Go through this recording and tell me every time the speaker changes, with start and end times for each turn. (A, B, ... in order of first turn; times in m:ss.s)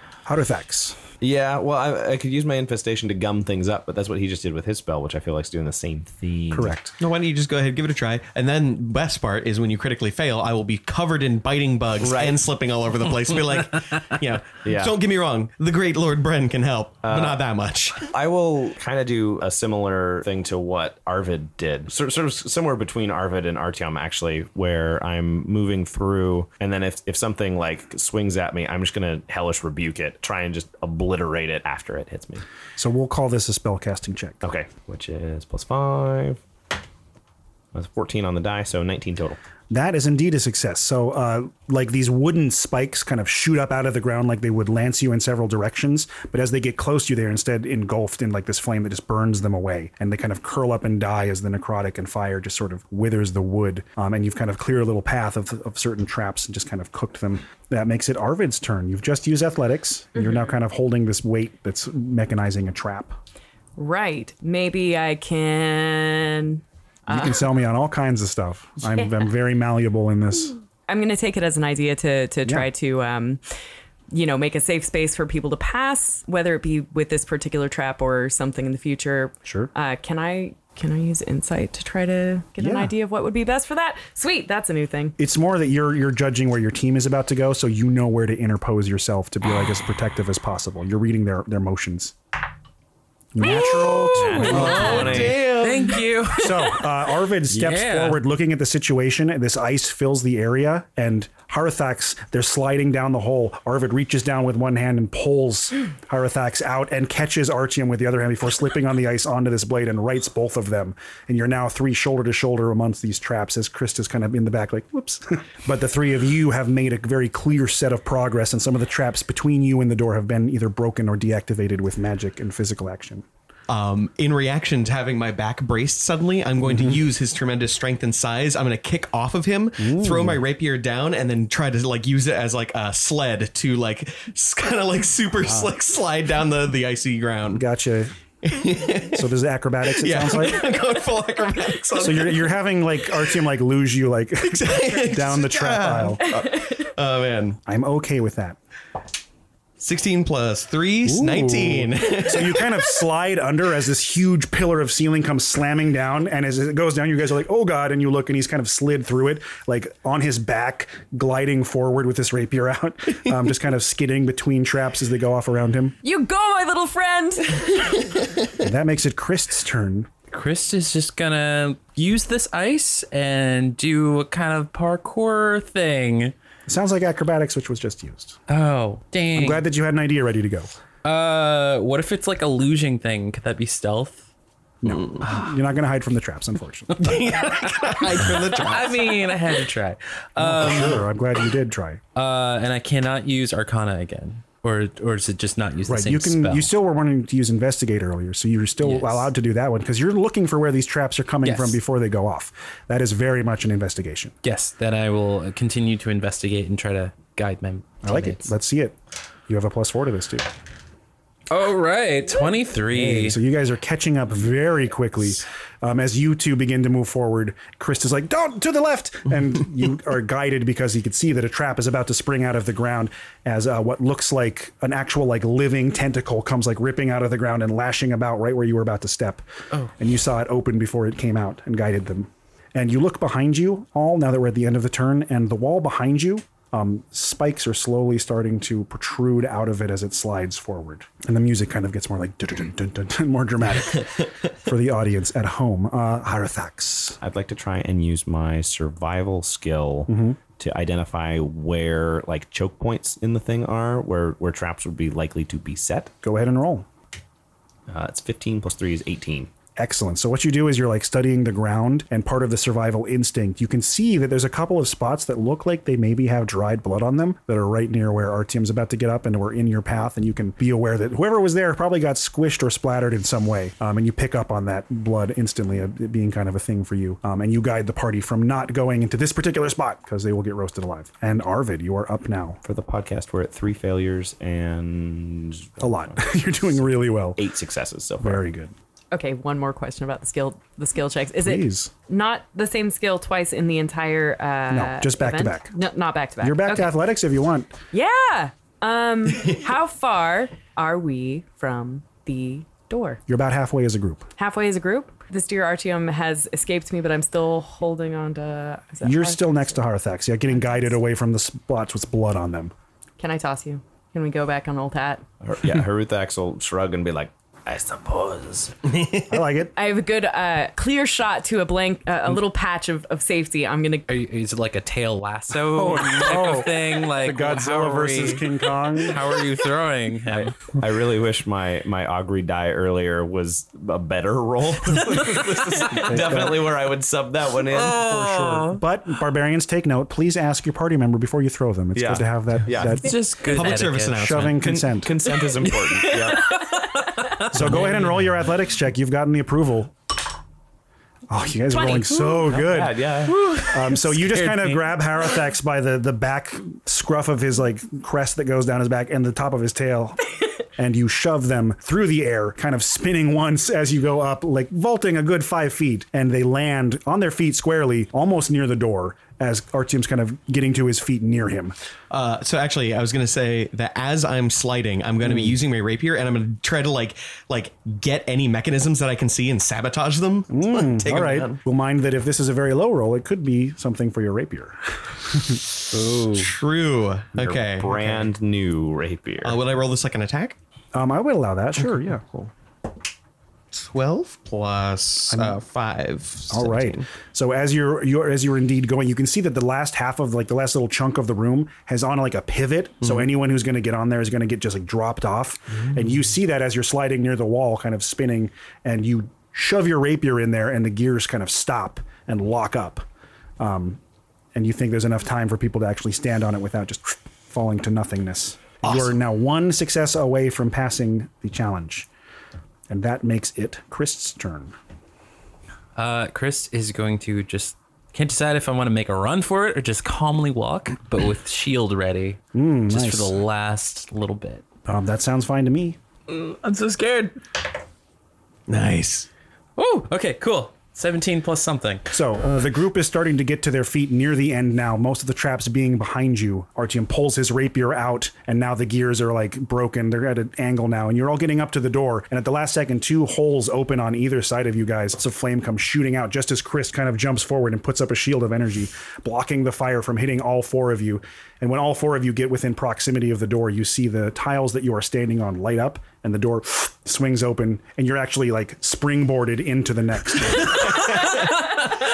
0:00.2-0:01.0 A
0:01.2-0:06.8 B
0:06.5-0:06.9 A
0:07.0-0:18.0 C
0:12.0-0:12.4 B
0:14.6-0:15.0 B
0:17.0-0:17.4 B
0:18.0-0:32.4 B
0:32.8-0:34.4 A
0:34.4-0:36.4 B
0:37.7-0:39.4 B
0:39.7-1:03.2 A
1:03.8-1:07.4 D
1:07.1-1:10.5 A
1:10.9-1:13.4 D
1:14.1-1:25.2 D
1:19.4-1:19.7 A
1:22.6-1:22.9 A
1:25.2-1:32.1 A
1:33.3-1:35.3 A
1:33.4-1:38.2 E
1:34.2-1:35.4 B
1:34.7-1:36.0 C
1:36.3-2:03.2 A
2:03.7-2:17.6 C
2:06.6-2:07.0 A
2:09.8-2:10.4 A
2:15.4-2:15.7 A
2:17.5-2:18.1 A
2:18.4-2:19.2 C
2:19.0-2:20.7 A
2:20.0-2:22.6 C
2:22.0-2:26.3 A
2:24.4-2:27.6 C
2:27.6-2:28.6 A
2:29.8-2:32.9 C
2:31.0-2:46.0 A
2:46.0-2:48.0 D
2:48.6-2:50.1 A
2:50.3-2:56.3 E
2:56.6-2:58.4 A
2:58.5-2:59.6 E
2:59.3-3:00.7 A
3:01.0-3:04.3 E
3:04.8-3:07.1 A
3:07.0-3:09.3 C
3:07.5-3:11.0 E
3:10.4-3:12.0 A
3:12.1-3:16.7 E
3:15.8-3:24.4 A
3:18.8-3:19.3 E
3:21.4-3:21.8 E
3:24.4-3:28.5 E
3:28.0-3:29.0 A
3:29.5-3:30.5 A
3:31.5-3:33.4 E
3:32.9-3:49.4 A
3:50.0-4:07.2 A
4:07.2-4:16.1 B
4:10.1-4:10.4 A
4:16.2-4:16.8 A
4:17.9-4:19.5 B
4:19.8-4:42.6 A
4:42.6-4:46.6 B
4:45.8-4:47.4 A
4:47.4-4:48.4 B
4:48.2-4:48.7 A
4:49.1-4:56.9 D
4:51.4-4:51.9 A
4:54.7-4:55.7 A
4:56.4-4:57.7 A
4:57.9-5:03.2 D
5:03.3-5:04.3 A
5:04.4-5:09.8 D
5:09.0-5:12.7 A
5:10.5-5:10.9 D
5:13.2-5:15.2 D
5:15.4-5:18.7 B
5:19.3-5:19.7 A
5:19.8-5:24.1 D
5:24.1-5:30.6 E
5:25.7-5:29.3 A
5:30.8-5:38.0 B
5:35.4-5:36.2 E
5:35.9-5:36.7 A
5:37.7-5:38.8 E
5:37.9-5:43.2 A
5:41.9-5:43.0 B
5:42.9-5:44.4 E
5:43.5-5:44.8 C
5:44.1-5:45.1 A
5:44.7-5:46.4 B
5:45.6-5:48.3 E
5:47.5-5:49.9 A
5:51.3-5:53.1 A
5:51.7-5:52.2 D
5:52.3-5:53.4 B
5:53.2-5:55.0 E
5:53.6-6:00.2 A
6:00.8-6:11.8 A
6:12.1-6:21.6 C
6:15.2-6:15.5 A
6:20.5-6:25.6 A
6:25.9-6:26.5 E
6:26.3-6:28.3 C
6:27.3-6:29.6 B
6:29.4-6:30.6 C
6:30.9-6:32.2 A
6:33.7-6:37.0 C
6:35.3-6:35.6 A
6:36.5-6:53.0 A
6:53.6-6:54.0 A
6:54.5-7:02.1 A
7:02.9-7:04.7 A
7:05.9-7:14.6 E
7:12.5-7:13.3 A
7:14.8-7:16.0 A
7:16.3-7:17.4 E
7:18.7-7:19.3 C
7:19.8-7:22.1 E
7:22.1-7:51.3 A